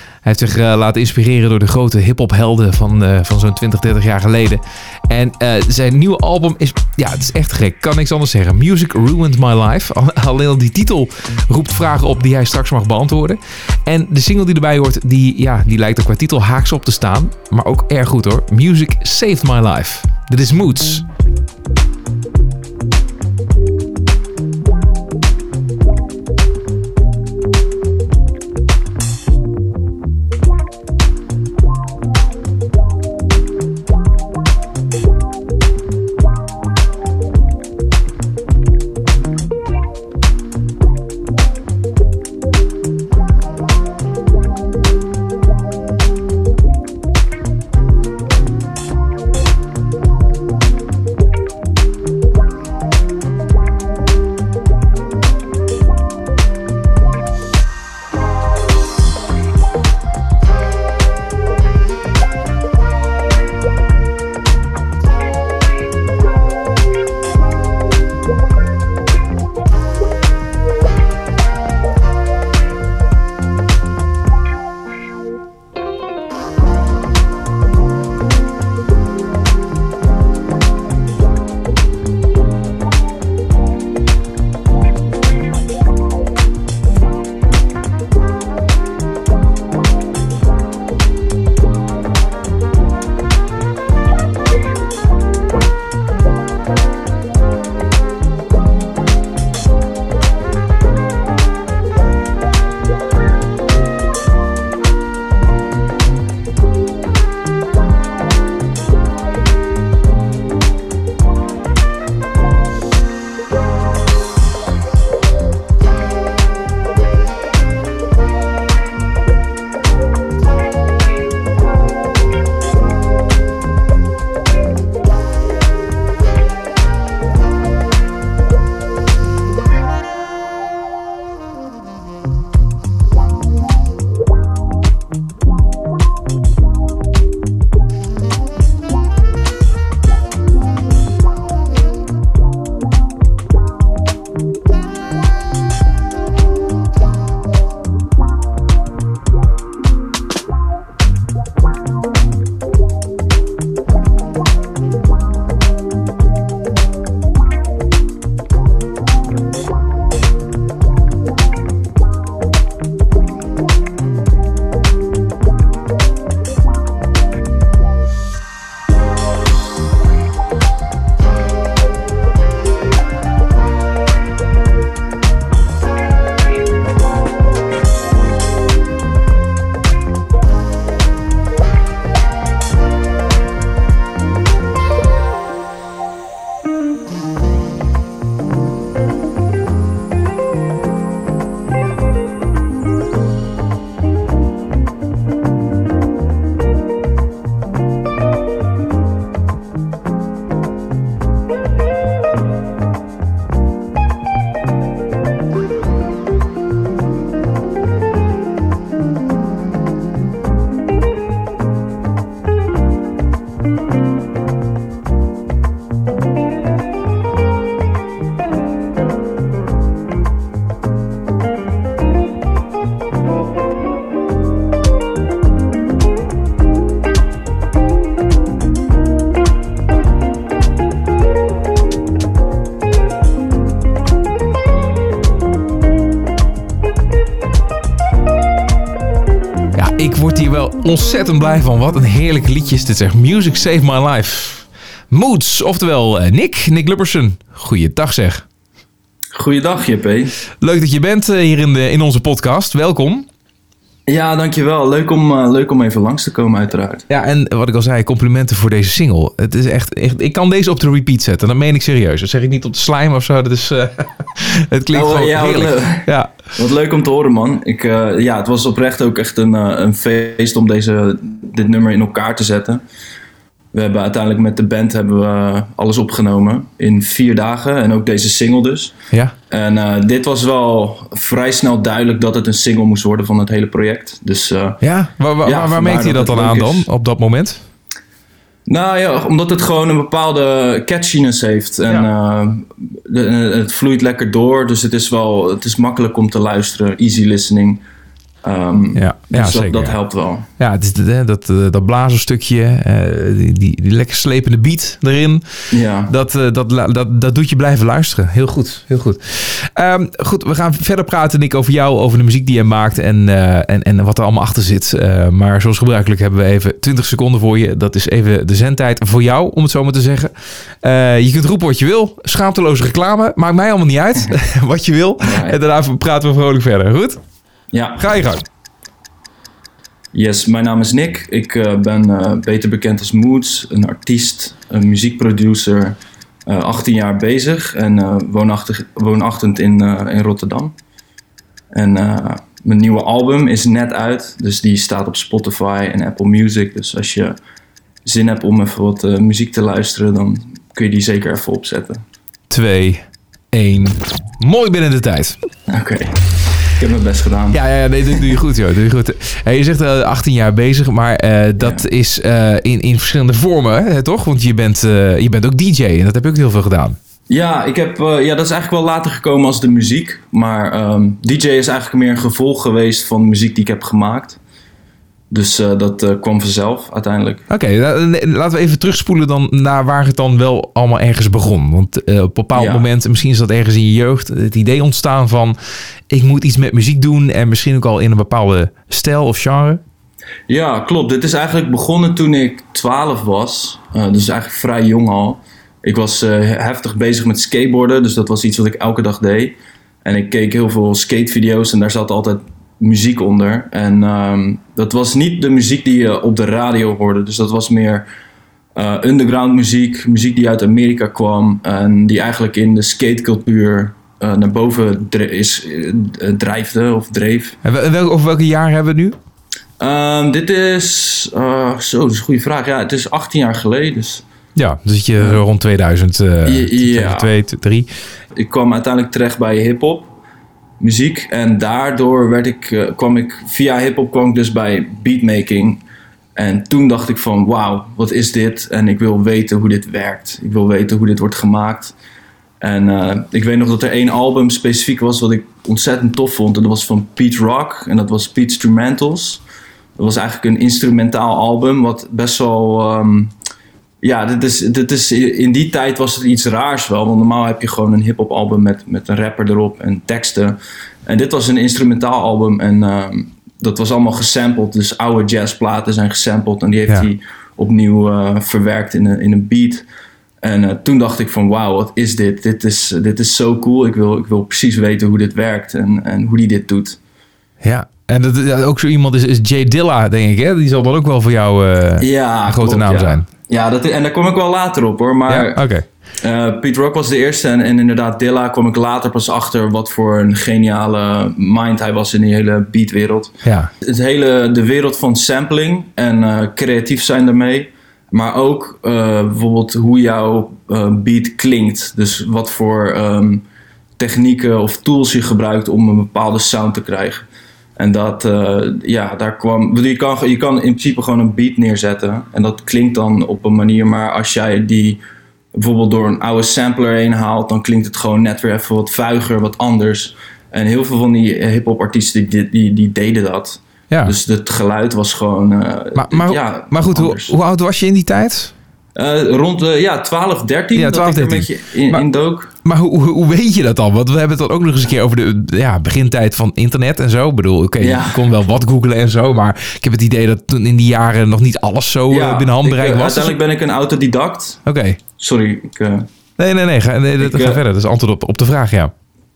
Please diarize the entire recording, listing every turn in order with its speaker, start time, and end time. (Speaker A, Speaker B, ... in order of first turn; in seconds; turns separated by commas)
Speaker A: 0.2-21.0, Speaker A: 239.7-248.4, Speaker B: 249.3-250.3, Speaker A: 250.6-253.3, Speaker B: 254.1-257.1, Speaker A: 257.1-266.3, Speaker B: 264.9-272.8, Speaker B: 273.7-278.9, Speaker B: 279.5-284.8, Speaker A: 284.8-287.6, Speaker B: 285.4-286.9, Speaker B: 288.7-297.8, Speaker B: 298.4-300.4, Speaker A: 298.9-300.0, Speaker A: 300.6-327.2, Speaker B: 305.7-306.1, Speaker B: 325.2-325.6, Speaker B: 327.7-328.1, Speaker A: 328.0-328.4, Speaker B: 330.1-340.7, Speaker B: 341.7-347.4, Speaker B: 348.0-352.0, Speaker A: 352.5-355.4, Speaker B: 355.7-358.3, Speaker A: 357.5-367.0, Speaker B: 361.6-361.8, Speaker B: 367.3-374.4, Speaker B: 375.3-377.4, Speaker A: 377.5-385.5, Speaker B: 382.5-382.9, Speaker A: 386.1-389.8, Speaker B: 390.5-408.1, Speaker B: 408.7-417.6, Speaker A: 417.6-419.1, Speaker B: 419.8-424.2, Speaker A: 424.5-427.9, Speaker B: 425.2-425.4, Speaker B: 426.4-427.3, Speaker B: 428.3-430.1, Speaker B: 430.8-435.8, Speaker B: 436.4-441.9, Speaker B: 442.6-449.4, Speaker B: 449.9-453.3, Speaker B: 454.0-469.8, Speaker B: 470.4-477.0, Speaker A: 477.6-483.3, Speaker B: 482.0-485.6, Speaker A: 485.3-485.8, Speaker B: 486.2-503.4, Speaker A: 493.4-493.7, Speaker B: 504.0-507.2, Speaker B: 507.8-515.0, Speaker B: 515.5-527.3, Speaker A: 523.9-524.1, Speaker A: 525.9-528.5, Speaker B: 528.9-532.5, Speaker A: 530.7-532.0, Speaker A: 532.6-543.4, Speaker B: 537.8-538.2, Speaker B: 542.1-544.6, Speaker A: 544.6-545.0, Speaker B: 545.2-546.1, Speaker A: 546.4-548.9, Speaker B: 547.2-547.6